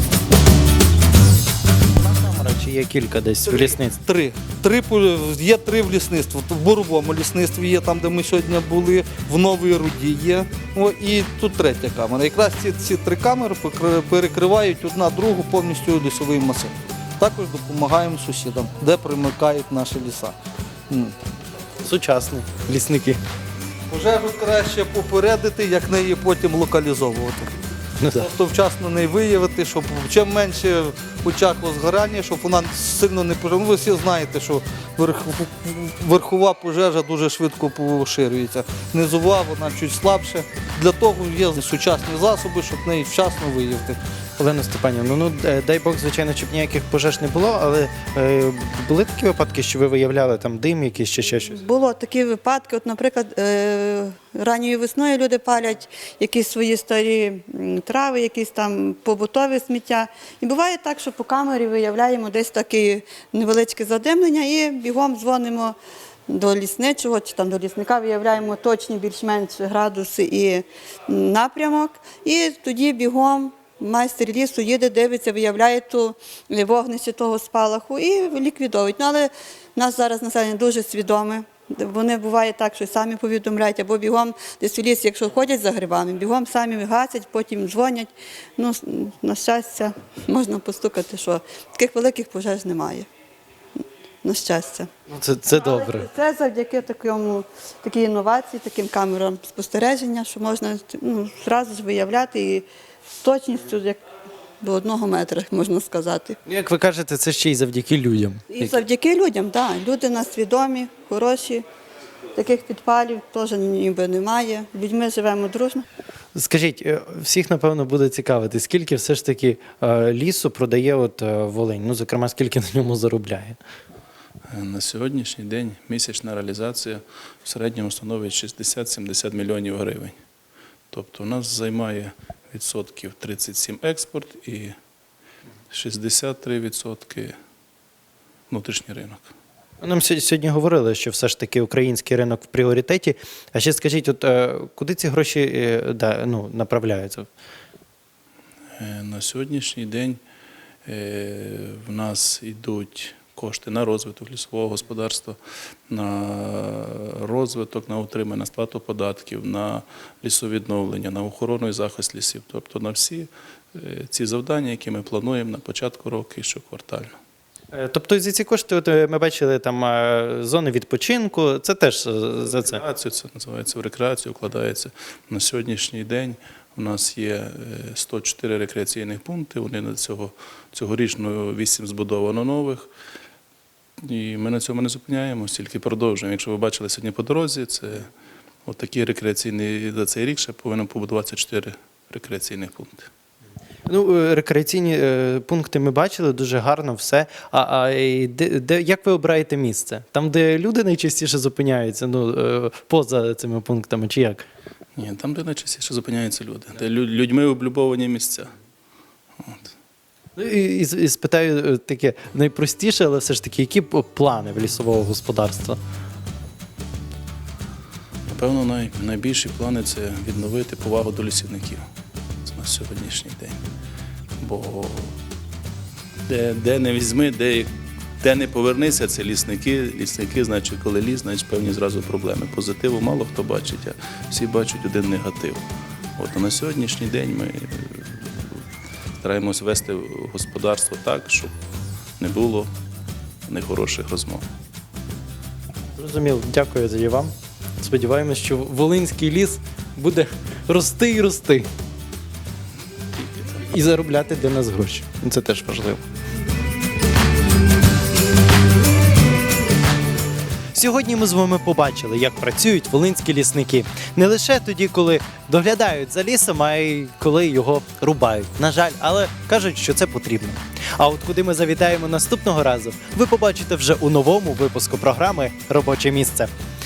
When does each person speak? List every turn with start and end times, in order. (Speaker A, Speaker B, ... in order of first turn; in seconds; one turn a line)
Speaker A: 2.0-4.0
Speaker B: 3.5-20.4
Speaker A: 21.8-23.2
Speaker B: 23.9-27.5
Speaker A: 28.0-28.3
Speaker B: 28.1-44.0
Speaker A: 44.4-51.6
Speaker C: 51.5-65.8
Speaker C: 66.3-93.1
Speaker C: 94.2-94.9
Speaker A: 95.1-96.1
Speaker C: 95.5-102.7
Speaker C: 103.2-104.0
Speaker C: 104.6-106.4
Speaker A: 106.4-108.4
Speaker C: 108.5-111.6
Speaker C: 112.3-115.8
Speaker A: 116.3-123.6
Speaker D: 124.5-130.2
Speaker D: 130.9-134.7
Speaker D: 135.7-137.3
Speaker D: 138.5-139.3
Speaker A: 139.8-147.3
Speaker D: 148.8-150.2
Speaker D: 150.8-155.4
Speaker D: 155.9-167.1
Speaker A: 167.7-172.8
Speaker D: 172.7-182.9
Speaker D: 184.0-188.1
Speaker D: 188.7-193.1
Speaker A: 193.8-204.4
Speaker D: 205.0-208.5
Speaker D: 209.4-209.7
Speaker A: 210.3-215.8
Speaker D: 218.3-221.9
Speaker D: 222.4-223.6
Speaker D: 224.4-225.1
Speaker D: 226.3-235.6
Speaker D: 236.2-238.6
Speaker D: 239.2-241.5
Speaker D: 242.2-242.7
Speaker D: 243.5-244.4
Speaker A: 245.9-251.7
Speaker A: 253.4-256.0
Speaker A: 260.7-276.5